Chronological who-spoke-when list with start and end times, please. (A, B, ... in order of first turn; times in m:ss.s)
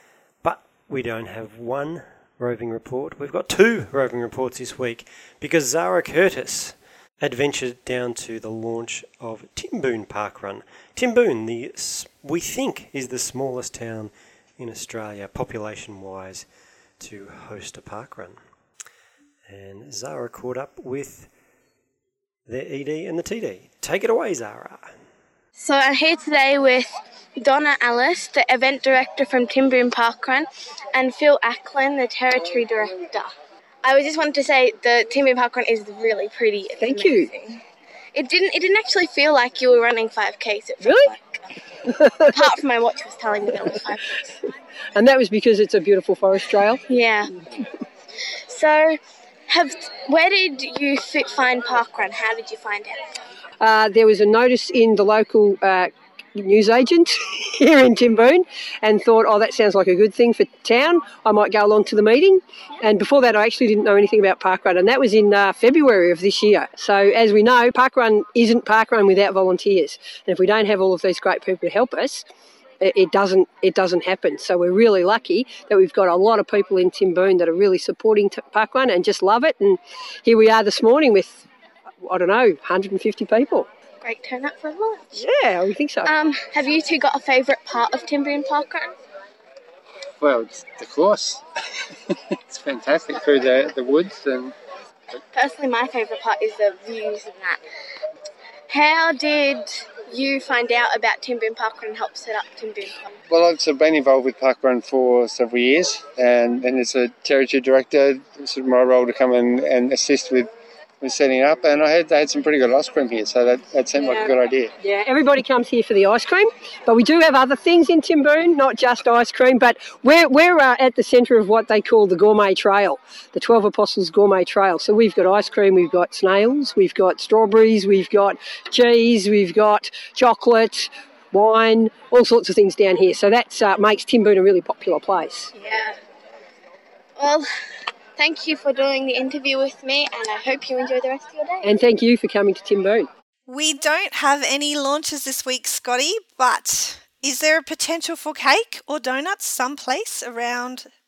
0:00.4-0:16.5 A
0:17.0-0:18.4 A
0:19.5-0:21.3 A
0:22.5-0:24.9 A
0:25.6-0:33.3 B
0:33.8-0:37.6 B
0:36.8-0:37.3 C
0:38.1-0:41.4 B
0:40.8-0:41.1 C
0:41.9-0:42.4 C
0:42.3-0:44.2 B
0:45.0-0:46.8 C
0:46.9-0:47.3 B
0:48.5-0:53.2 B
0:53.6-1:12.3 C
1:12.8-1:21.5 C
1:22.0-1:23.7 C
1:24.0-1:25.2 B
1:25.2-1:26.1 C
1:26.0-1:28.9 B
1:30.2-1:31.4 D
1:32.5-1:34.6 D
1:35.3-1:37.6 B
1:38.7-1:43.2 B
1:43.3-1:50.5 D
1:51.0-1:54.7 D
1:54.0-2:15.5 C
2:15.6-2:16.0 B
2:17.2-2:17.5 B
2:18.2-2:21.7 B
2:21.6-2:23.1 C
2:23.5-2:30.9 E